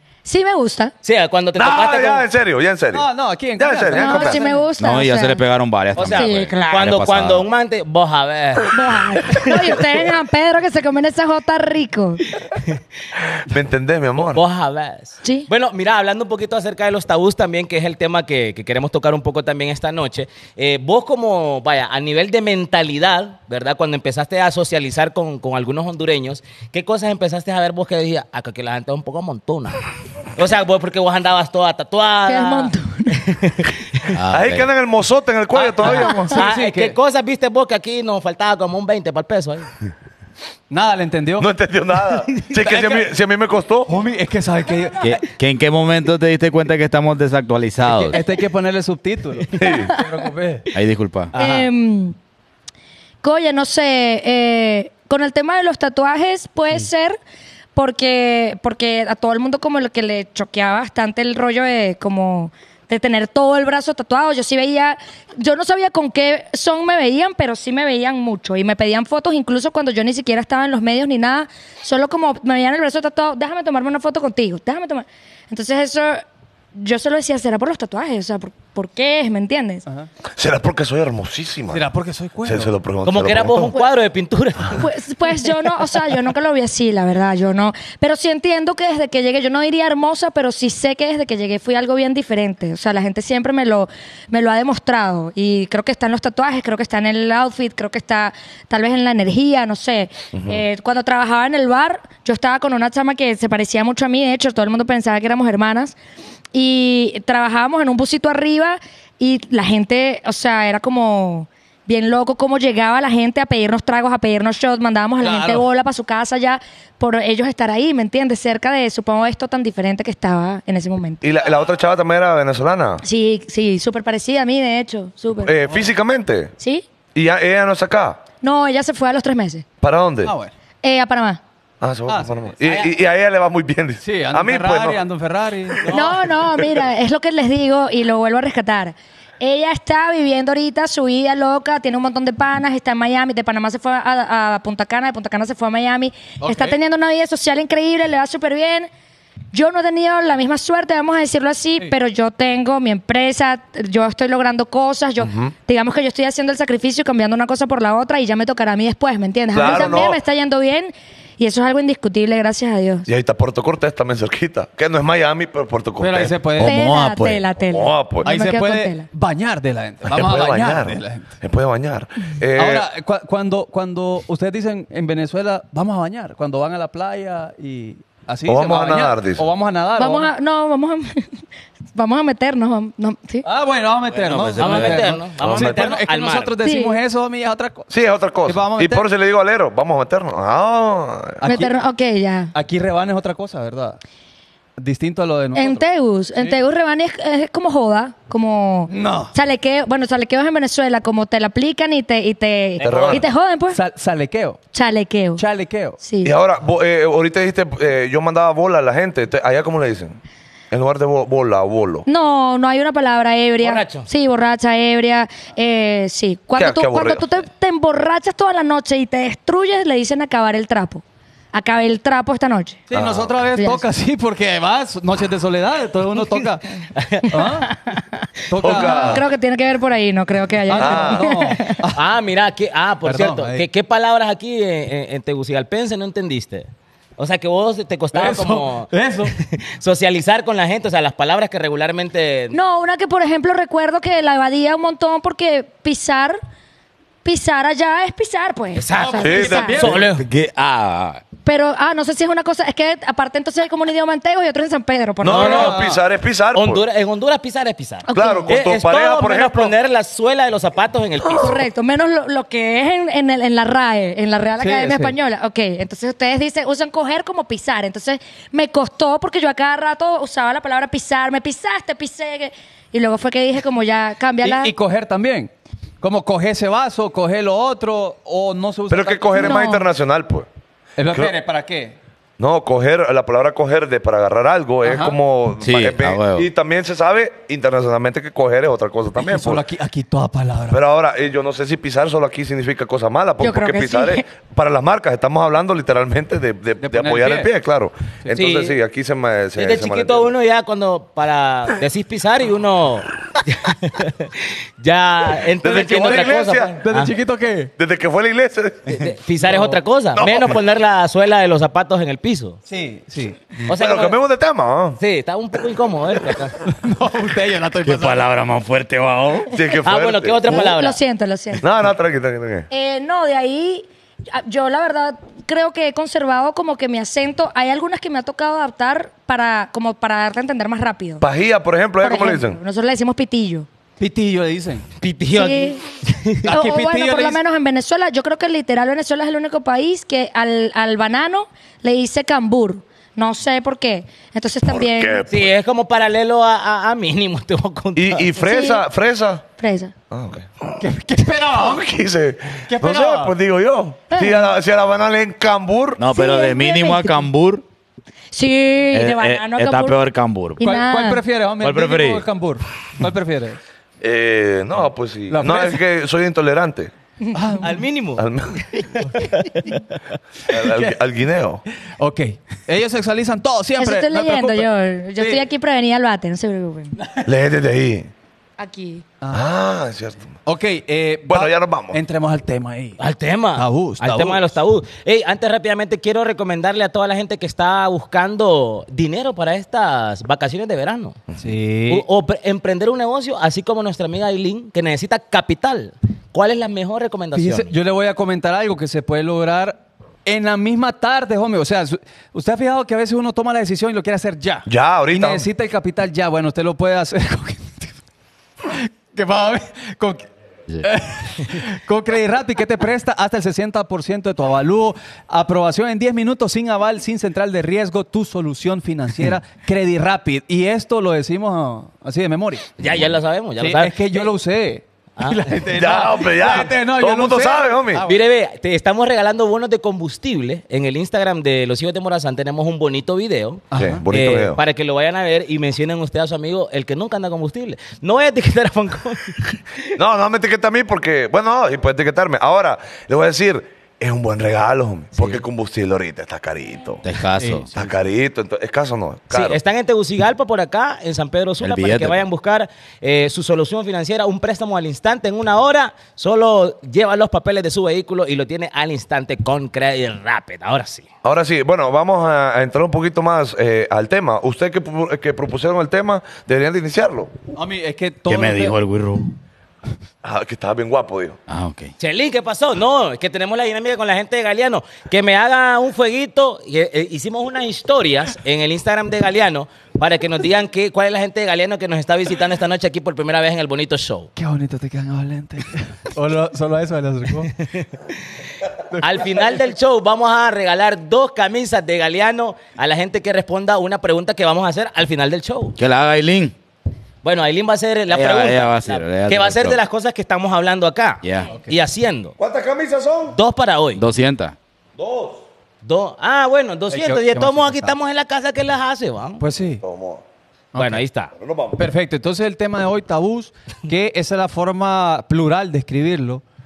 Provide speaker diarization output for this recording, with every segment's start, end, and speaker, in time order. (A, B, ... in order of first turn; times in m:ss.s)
0:00.2-0:00.9 A
0:01.0-0:02.3 B
0:01.6-0:04.4 C
0:02.9-0:04.6 D
0:03.9-0:05.4 A
0:04.8-0:07.4 E
0:06.0-0:09.8 B
0:06.0-0:06.8 A
0:08.7-0:12.2 A
0:13.4-0:14.4 C
0:14.3-0:34.1 B
0:15.2-0:15.5 A
0:32.3-0:33.2 A
0:34.1-0:34.7 E
0:34.2-0:36.3 C
0:35.5-0:39.7 B
0:35.8-0:37.0 D
0:36.1-0:36.4 A
0:40.7-0:41.5 D
0:41.4-0:43.9 C
0:42.4-0:43.0 D
0:43.9-0:45.2 D
0:45.0-0:48.2 E
0:47.8-0:50.7 D
0:49.6-0:49.9 C
0:49.6-0:50.1 A
0:50.7-0:51.3 E
0:51.3-0:51.7 D
0:51.3-0:52.2 A
0:53.2-0:57.2 A
0:57.7-1:16.2 A
1:16.7-1:19.8 A
1:20.4-1:21.8 C
1:21.7-1:22.7 D
1:22.4-1:23.7 C
1:23.0-1:24.8 B
1:24.8-1:46.0 A
1:40.3-1:40.6 C
1:46.5-2:01.2 A
1:55.3-1:55.6 D
2:01.2-2:03.0 C
2:03.0-2:05.5 A
2:05.4-2:06.5 C
2:06.6-2:06.8 A
2:07.1-2:08.2 C
2:08.4-2:09.6 A
2:09.8-2:10.3 C
2:10.2-2:10.5 D
2:10.8-2:11.4 A
2:11.8-2:15.0 C
2:12.1-2:12.5 D
2:12.6-2:12.9 B
2:14.0-2:16.3 D
2:15.9-2:28.9 A
2:26.4-2:26.8 D
2:29.5-2:43.1 A
2:35.2-2:35.5 C
2:39.5-2:40.2 C
2:43.0-2:46.3 C
2:46.0-2:46.8 D
2:46.6-2:47.4 E
2:46.6-2:49.1 A
2:47.6-2:48.3 C
2:48.2-2:51.3 D
2:50.0-2:52.9 C
2:52.5-3:00.3 D
2:58.4-2:59.4 C
3:00.0-3:01.2 A
3:01.9-3:03.4 A
3:03.4-3:07.9 D
3:04.2-3:05.6 E
3:04.2-3:06.6 B
3:05.4-3:05.8 C
3:06.6-3:07.0 A
3:07.9-3:11.4 C
3:08.4-3:09.0 D
3:11.4-3:11.8 D
3:11.4-3:12.5 A
3:12.5-3:14.0 D
3:14.8-3:15.8 D
3:15.5-3:23.8 A
3:18.9-3:19.3 D
3:22.8-3:23.2 C
3:23.7-3:24.6 D
3:24.7-3:25.4 A
3:25.4-3:26.0 D
3:26.0-3:26.3 A
3:26.2-3:30.2 C
3:30.7-3:32.0 C
3:32.0-3:41.0 A
3:33.6-3:34.1 B
3:36.6-3:37.3 C
3:41.5-3:42.8 A
3:42.9-3:47.7 D
3:42.9-3:43.3 C
3:43.5-3:43.8 A
3:47.0-3:47.3 B
3:47.6-3:48.0 A
3:48.5-3:49.2 D
3:48.6-3:49.2 C
3:48.7-3:51.8 A
3:50.7-3:52.0 D
3:50.7-3:51.3 C
3:51.9-4:02.6 B
3:53.0-3:53.6 D
3:58.1-3:59.3 D
4:02.5-4:06.4 A
4:07.2-4:09.8 A
4:08.8-4:10.2 B
4:09.0-4:10.1 D
4:09.2-4:09.9 C
4:09.8-4:11.2 E
4:11.4-4:15.8 A
4:15.2-4:16.8 C
4:15.3-4:15.9 B
4:15.3-4:16.0 D
4:16.5-4:21.6 B
4:18.1-4:18.5 A
4:18.1-4:19.7 C
4:21.4-4:34.7 A
4:24.6-4:25.1 D
4:34.4-4:35.5 D
4:36.0-4:39.6 D
4:38.9-4:40.5 C
4:39.3-4:39.8 A
4:41.0-4:42.0 D
4:42.4-4:49.6 C
4:44.8-4:45.2 D
4:45.6-4:46.4 E
4:49.2-4:50.8 D
4:50.7-5:00.3 C
4:53.4-4:54.2 A
4:56.8-4:57.5 D
4:58.3-4:58.8 B
4:59.6-5:07.1 B
5:05.6-5:06.8 C
5:06.8-5:07.7 D
5:07.8-5:09.1 C
5:08.9-5:12.6 B
5:10.2-5:10.6 C
5:12.7-5:13.7 D
5:13.6-5:14.2 B
5:13.7-5:15.0 C
5:15.0-5:16.6 B
5:16.6-5:18.3 D
5:17.8-5:19.5 E
5:19.5-5:20.6 C
5:19.8-5:21.0 B
5:20.5-5:21.6 A
5:21.6-5:22.7 C
5:22.7-5:31.2 A
5:31.2-5:32.6 C
5:32.0-5:33.7 A
5:34.0-5:34.8 D
5:35.0-5:36.5 B
5:35.3-5:35.8 A
5:36.4-5:37.4 D
5:36.5-5:45.2 A
5:44.7-5:45.5 C
5:45.3-5:48.4 B
5:48.0-5:49.4 C
5:48.4-5:48.8 A
5:49.6-5:49.9 A
5:50.1-5:50.6 C
5:50.8-5:51.8 D
5:51.5-5:56.0 C
5:52.7-5:53.4 D
5:56.0-5:57.6 E
5:56.1-5:57.2 A
5:58.3-6:00.0 A
5:58.9-6:00.6 E
6:00.6-6:01.2 A
6:00.6-6:03.6 D
6:01.6-6:02.2 E
6:04.0-6:06.9 C
6:05.3-6:05.8 D
6:07.2-6:07.5 A
6:07.3-6:07.8 D
6:07.6-6:09.8 B
6:08.2-6:08.6 C
6:09.1-6:09.7 D
6:10.5-6:11.6 C
6:10.5-6:11.0 D
6:12.0-6:15.4 D
6:13.8-6:17.0 A
6:17.0-6:17.3 D
6:17.2-6:18.1 C
6:18.6-6:19.0 A
6:19.3-6:20.3 C
6:20.4-6:23.0 D
6:21.3-6:22.0 C
6:23.0-6:31.2 B
6:23.5-6:24.4 D
6:31.4-6:32.0 D
6:31.9-6:37.7 B
6:37.3-6:47.9 D
6:44.7-6:45.5 C
6:48.6-6:50.2 D
6:50.8-7:02.7 D
7:02.8-7:04.3 B
7:03.6-7:08.2 D
7:05.2-7:05.5 B
7:05.7-7:08.0 C
7:08.0-7:19.6 B
7:13.7-7:14.0 D
7:13.8-7:14.6 C
7:20.0-7:27.1 C
7:27.0-7:27.7 E
7:27.7-7:29.6 C
7:29.3-7:41.1 B
7:31.6-7:32.2 E
7:41.2-7:47.3 C
7:47.5-7:48.8 D
7:48.3-7:49.3 E
7:50.2-7:51.4 C
7:51.5-7:51.9 E
7:52.0-8:04.3 B
8:04.4-8:07.5 D
8:07.6-8:08.2 B
8:08.9-8:09.2 D
8:09.0-8:15.8 B
8:15.8-8:16.5 E
8:17.2-8:22.3 B
8:18.1-8:19.8 E
8:21.2-8:21.5 E
8:22.4-8:23.4 C
8:23.3-8:24.0 B
8:24.0-8:24.5 E
8:25.0-8:25.4 C
8:25.8-8:29.4 B
8:26.9-8:27.9 D
8:29.4-8:29.8 D
8:29.8-8:30.2 C
8:30.7-8:31.0 D
8:30.7-8:31.3 B
8:31.3-8:31.8 C
8:31.8-8:36.4 D